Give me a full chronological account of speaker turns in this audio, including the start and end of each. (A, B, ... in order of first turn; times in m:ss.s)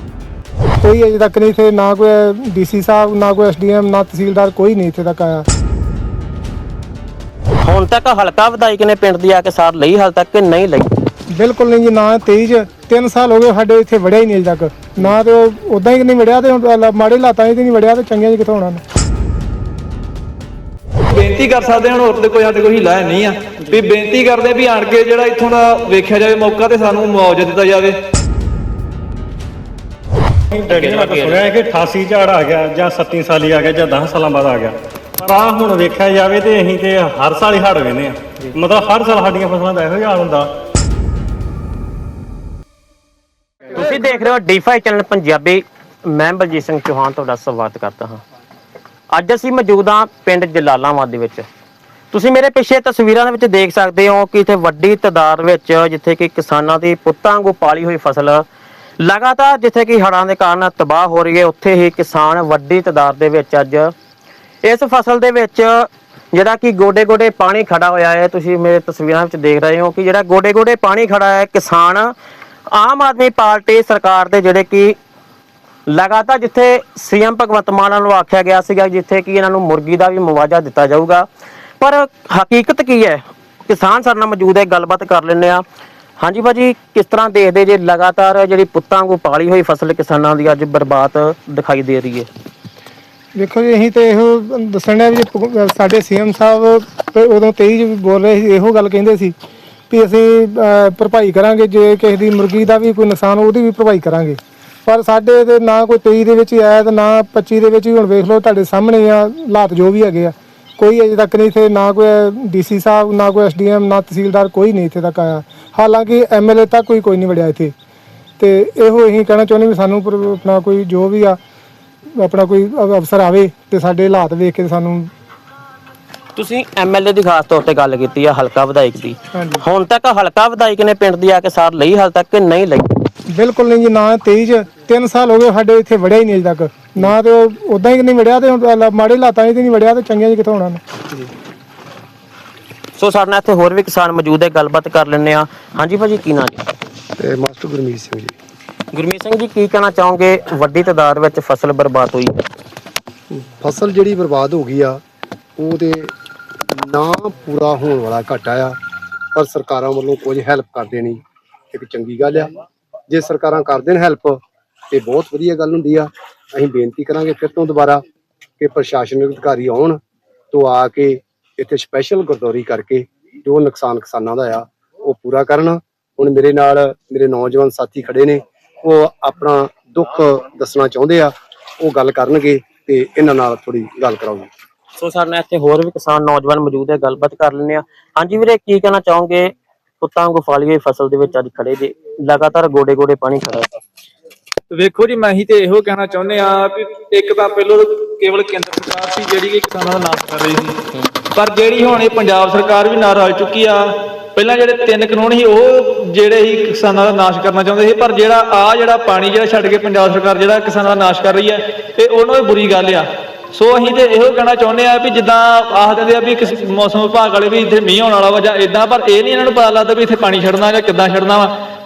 0:00.8-0:05.4 A
0:07.6-0:10.9 B
0:11.3-0:18.8 A
0:21.1-0:27.9 C
0:30.5-0:40.5 D
0:30.7-0:31.4 B
0:43.7-0:48.2 B
0:49.1-0:51.4 B
0:52.1-0:58.4 B
0:59.0-1:03.9 B
1:04.6-1:12.1 B
1:12.7-1:15.0 B
1:15.9-1:21.3 B
1:21.8-1:25.6 B
1:26.2-1:32.3 B
1:33.4-1:39.3 A
1:39.9-1:57.7 A
1:58.4-2:01.4 A
2:02.2-2:05.1 A
2:06.4-2:12.9 B
2:09.3-2:09.6 A
2:13.3-2:20.8 A
2:23.0-2:26.6 B
2:27.2-2:28.3 E
2:28.9-2:32.4 B
2:33.3-2:35.0 E
2:35.6-2:36.1 E
2:36.7-2:38.8 E
2:39.3-2:41.2 E
2:41.7-2:42.5 E
2:43.1-2:48.0 E
2:48.6-2:50.0 E
2:50.5-3:04.5 E
3:05.0-3:09.5 B
3:10.0-3:13.7 B
3:14.7-3:20.8 C
3:21.3-3:23.8 C
3:24.3-3:41.5 C